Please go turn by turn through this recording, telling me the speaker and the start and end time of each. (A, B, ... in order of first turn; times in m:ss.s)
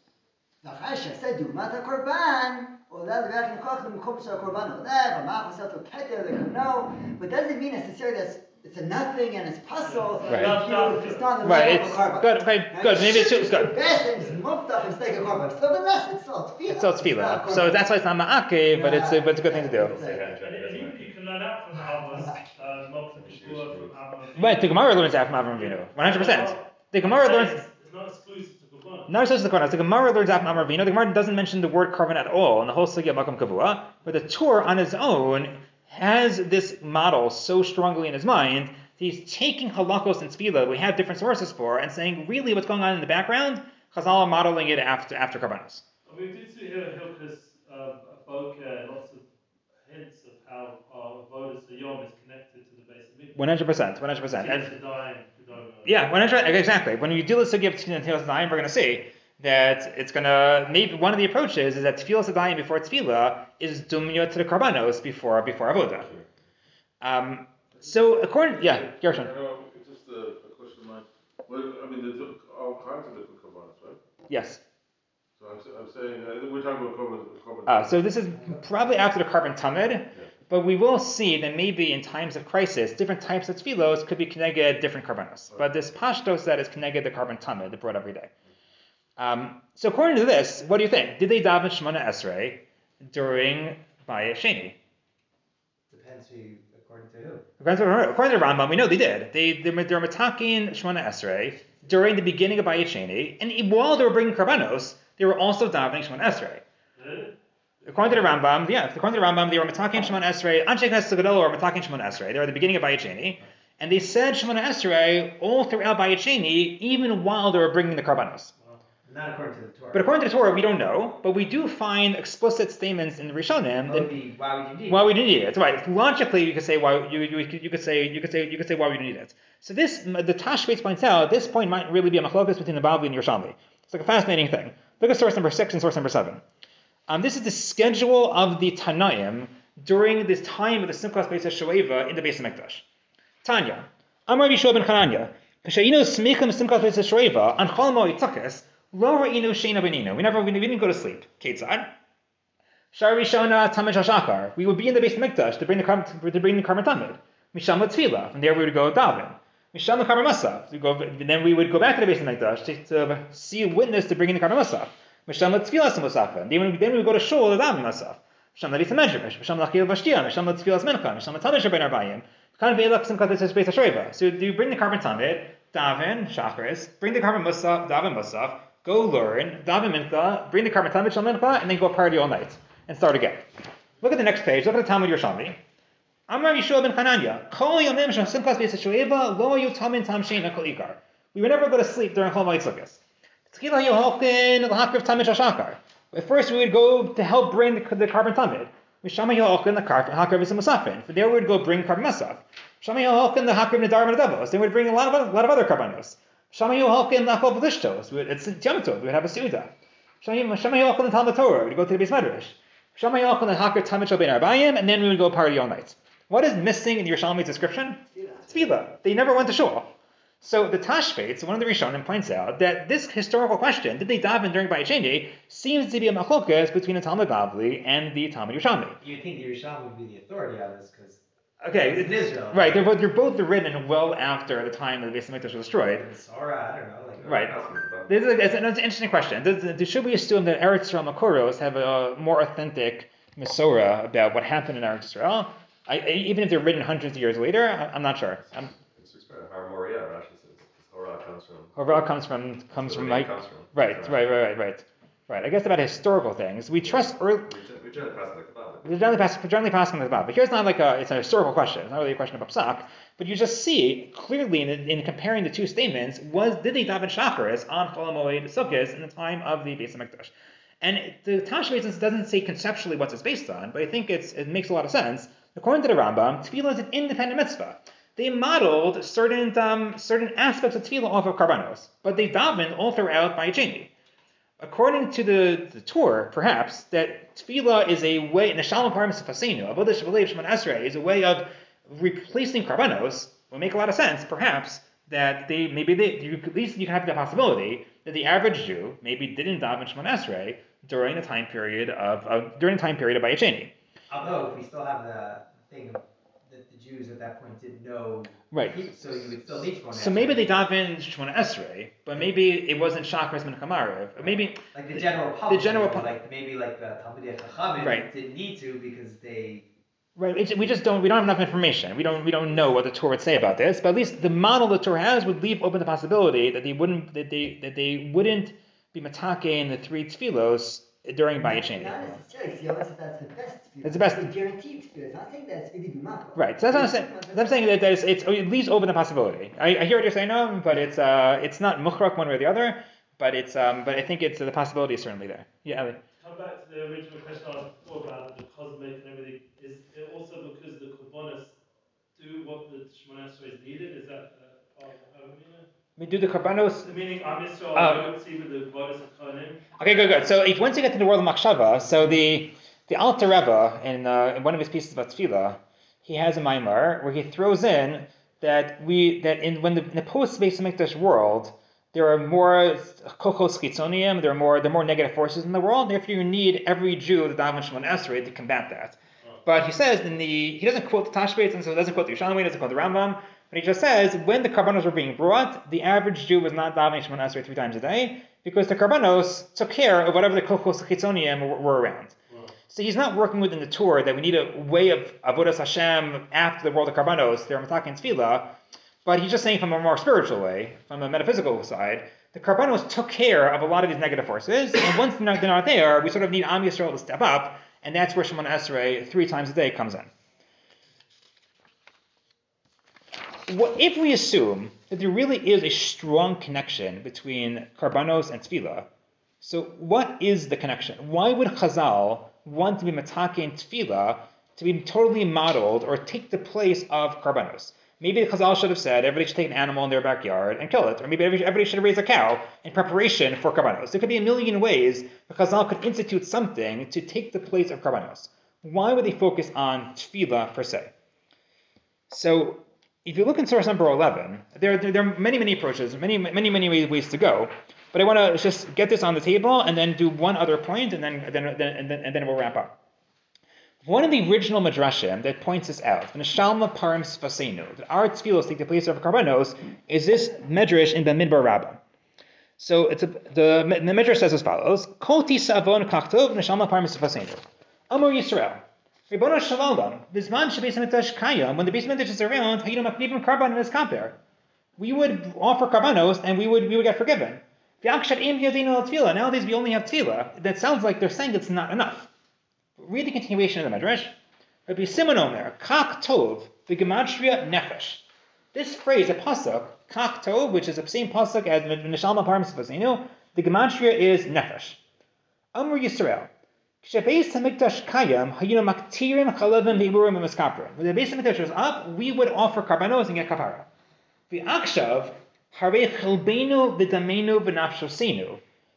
0:00.6-0:17.8 A
0:09.8-0:12.0 B
0:10.3-0:10.6 C
0:11.4-0:13.8 C
0:14.2-0:14.4 B
0:16.7-0:20.0 C
0:18.7-0:20.2 A
0:19.7-0:21.1 D
0:20.4-0:29.1 B
0:23.2-0:24.0 D
0:24.4-0:27.6 C
0:29.1-0:45.8 C
0:46.0-0:49.2 B
0:49.8-0:53.4 B
0:53.4-0:54.7 C
0:54.3-0:56.0 B
0:55.8-1:06.1 C
1:06.0-1:06.2 D
1:07.0-1:09.3 C
1:07.7-1:14.0 E
1:14.3-1:14.6 C
1:15.4-1:18.0 E
1:17.6-1:28.3 C
1:29.2-1:34.8 C
1:35.9-1:37.4 F
1:37.6-1:46.6 C
1:47.0-1:47.4 B
1:47.8-1:58.5 C
1:47.9-1:48.4 B
1:59.0-2:00.1 F
1:59.9-2:04.1 C
2:03.8-2:05.2 F
2:04.8-2:16.4 C
2:17.1-2:22.8 C
2:23.4-2:31.9 C
2:32.9-3:03.4 C
3:04.0-3:05.6 C
3:06.3-3:49.0 C
3:38.1-3:38.7 A
3:49.0-3:51.2 F
3:51.6-3:56.1 C
3:51.7-3:52.9 F
3:55.9-3:57.5 F
3:57.2-3:58.1 D
3:57.2-3:57.5 C
3:58.1-4:08.7 C
4:08.5-4:12.1 D
4:11.8-4:17.5 C
4:12.8-4:14.3 D
4:16.8-4:19.0 D
4:18.8-4:43.9 C
4:44.6-5:03.7 C
5:04.1-5:10.5 F
5:08.5-5:08.9 C
5:09.9-5:16.1 C
5:14.2-5:19.7 F
5:17.8-5:18.1 C
5:20.2-5:32.1 C
5:31.4-5:37.8 A
5:33.8-5:34.3 C
5:36.3-5:46.0 C
5:46.2-5:51.6 B
5:52.2-5:55.7 B
5:56.0-5:57.0 C
5:56.8-5:59.6 B
5:57.7-5:58.1 C
5:59.8-6:32.1 C
6:32.3-6:32.5 B
6:32.7-6:50.1 C
6:53.5-6:58.9 C
6:59.4-7:20.9 C
7:22.1-7:32.8 C
7:33.8-7:41.8 C
7:42.6-7:54.2 C
7:54.8-8:02.1 C
8:02.8-8:04.2 C
8:04.7-8:14.8 C
8:15.5-8:16.3 C
8:16.8-8:23.7 C
8:24.3-8:28.4 C